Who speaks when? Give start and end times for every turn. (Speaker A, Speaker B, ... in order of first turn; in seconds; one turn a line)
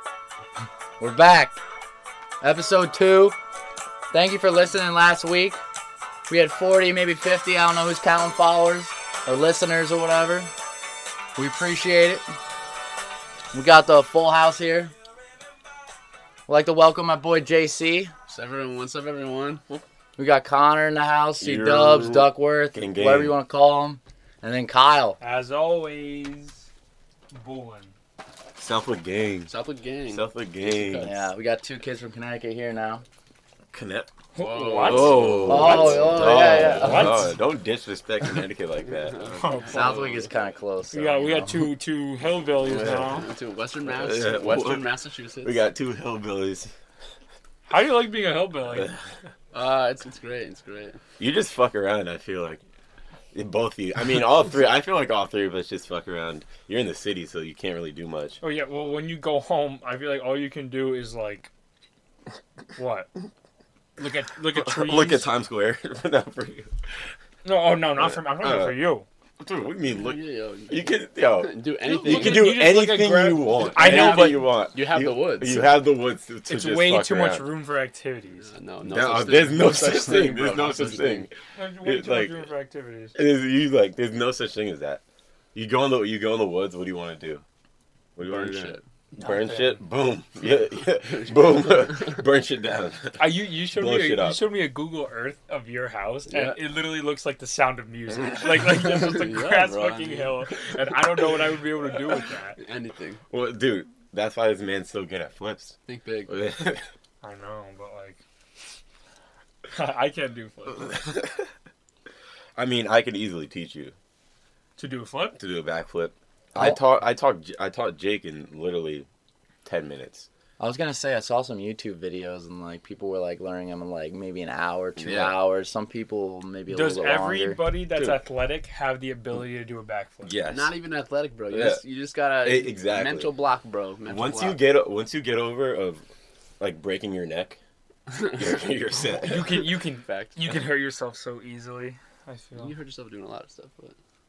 Speaker A: 1.0-1.6
Speaker A: 2.4-3.4
Speaker A: 4.1-5.6
Speaker A: 6.3-10.5
Speaker A: 11.4-12.2
Speaker A: 13.5-14.9
Speaker A: 16.5-18.1
Speaker B: 18.3-19.8
Speaker A: 20.2-25.2
Speaker C: 21.4-23.4
Speaker D: 25.2-26.7
Speaker D: 27.3-27.9
Speaker C: 28.6-29.5
Speaker B: 29.5-31.1
Speaker C: 30.1-31.1
Speaker A: 31.0-33.0
Speaker C: 33.7-39.5
Speaker D: 34.3-37.4
Speaker B: 34.4-36.4
Speaker A: 35.4-37.3
Speaker B: 39.1-40.3
Speaker D: 39.3-40.0
Speaker A: 39.7-41.6
Speaker D: 40.9-43.3
Speaker C: 42.6-43.2
Speaker B: 42.9-45.6
Speaker C: 43.9-44.9
Speaker C: 45.4-46.7
Speaker D: 47.7-49.0
Speaker B: 49.5-51.0
Speaker C: 51.2-52.6
Speaker C: 53.3-58.4
Speaker D: 58.4-61.5
Speaker D: 62.8-63.1
Speaker D: 64.0-65.3
Speaker C: 64.5-67.2
Speaker D: 67.4-69.1
Speaker C: 68.0-68.8
Speaker C: 69.4-77.5
Speaker B: 69.9-72.6
Speaker D: 71.9-74.5
Speaker B: 73.5-75.7
Speaker D: 76.5-78.5
Speaker B: 78.4-81.3
Speaker C: 78.8-82.5
Speaker D: 81.5-83.2
Speaker C: 83.2-85.0
Speaker C: 85.5-87.4
Speaker C: 88.2-94.5
Speaker B: 88.2-88.8
Speaker D: 89.2-89.8
Speaker B: 91.1-92.0
Speaker D: 93.2-102.6
Speaker B: 98.7-100.5
Speaker B: 102.6-103.2
Speaker C: 103.3-105.8
Speaker B: 105.9-106.3
Speaker C: 106.3-106.9
Speaker D: 107.2-108.2
Speaker D: 109.7-111.1
Speaker C: 110.9-111.4
Speaker C: 112.6-113.9
Speaker D: 114.8-115.4
Speaker C: 115.4-119.1
Speaker C: 119.7-120.3
Speaker A: 120.6-127.6
Speaker C: 125.0-125.4
Speaker D: 126.7-130.3
Speaker C: 127.9-128.2
Speaker C: 130.2-130.7
Speaker B: 130.5-134.6
Speaker C: 131.5-131.8
Speaker C: 132.4-133.3
Speaker C: 134.1-136.0
Speaker C: 136.6-137.6
Speaker C: 138.3-139.7
Speaker D: 139.1-142.7
Speaker B: 140.1-140.4
Speaker B: 142.6-143.9